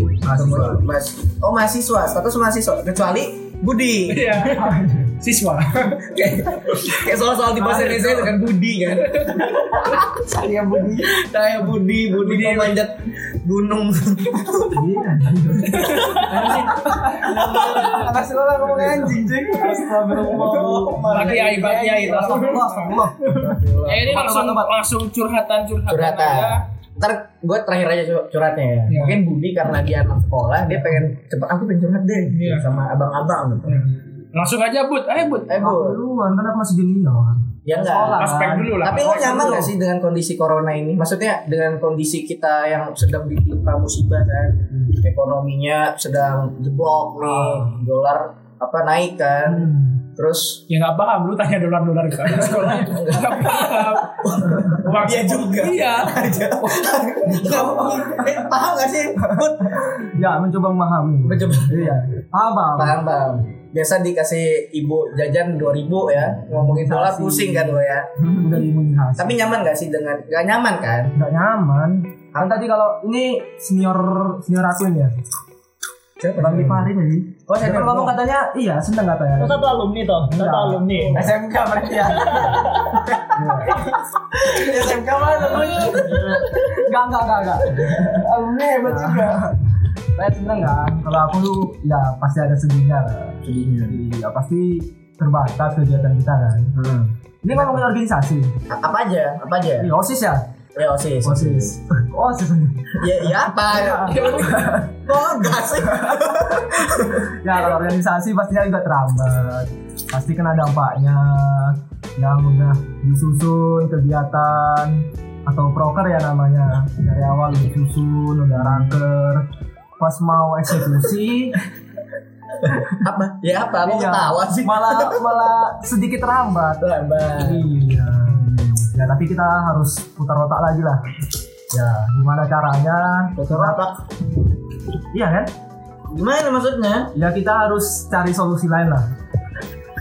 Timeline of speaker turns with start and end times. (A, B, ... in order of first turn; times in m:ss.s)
0:00.2-0:00.8 A
0:00.3-0:04.5 B
0:04.1-0:06.0 C
0:04.5-0:05.1 A
0:06.0-0:10.3 B
0:07.6-0:08.0 A
0:07.6-0:08.3 C
0:09.0-0:10.0 C
0:10.1-0:11.1 A
0:10.9-0:14.8 B
0:12.2-0:12.8 C
0:14.7-0:24.7 A
0:15.7-0:16.7 C
0:16.2-0:19.1 B
0:17.3-0:18.1 C
0:20.2-0:22.6 B
0:21.1-0:23.0 C
0:23.3-0:24.2 B
0:23.8-0:26.6 C
0:25.9-0:33.8 B
0:28.9-0:29.2 C
0:32.3-0:32.7 C
0:33.7-0:35.5 C
0:35.5-0:36.0 B
0:35.6-0:39.7 A
0:37.6-0:50.6 B
0:38.2-0:39.7 C
0:47.2-0:47.8 A
0:49.4-0:50.0 A
0:50.7-0:56.3 C
0:52.4-1:00.1 B
0:57.3-0:58.3 A
0:59.8-1:03.0 A
1:01.2-1:02.0 B
1:02.7-1:08.6 B
1:06.4-1:09.5 A
1:09.2-1:11.1 B
1:11.1-1:15.1 A
1:16.2-1:16.9 B
1:16.3-1:19.6 A
1:17.5-1:18.2 B
1:19.4-1:21.3 D
1:20.3-1:29.6 A
1:20.9-1:21.2 C
1:22.0-1:23.2 D
1:25.4-1:26.0 C
1:25.6-1:26.7 B
1:28.8-1:29.2 B
1:30.1-1:36.7 A
1:33.4-1:34.0 B
1:36.7-1:37.9 B
1:37.4-1:38.5 A
1:38.7-1:39.9 B
1:39.8-1:40.4 A
1:40.7-1:41.8 B
1:41.2-1:46.4 A
1:43.0-1:47.3 B
1:44.0-1:44.8 C
1:46.9-1:59.4 A
1:58.5-1:59.0 B
2:00.0-2:01.6 A
2:02.8-2:05.4 B
2:03.8-2:06.8 A
2:06.8-2:07.7 B
2:07.4-2:11.0 A
2:08.2-2:08.9 B
2:11.7-2:13.8 A
2:13.4-2:14.0 B
2:15.1-2:15.5 A
2:16.1-2:17.1 B
2:17.1-2:19.1 A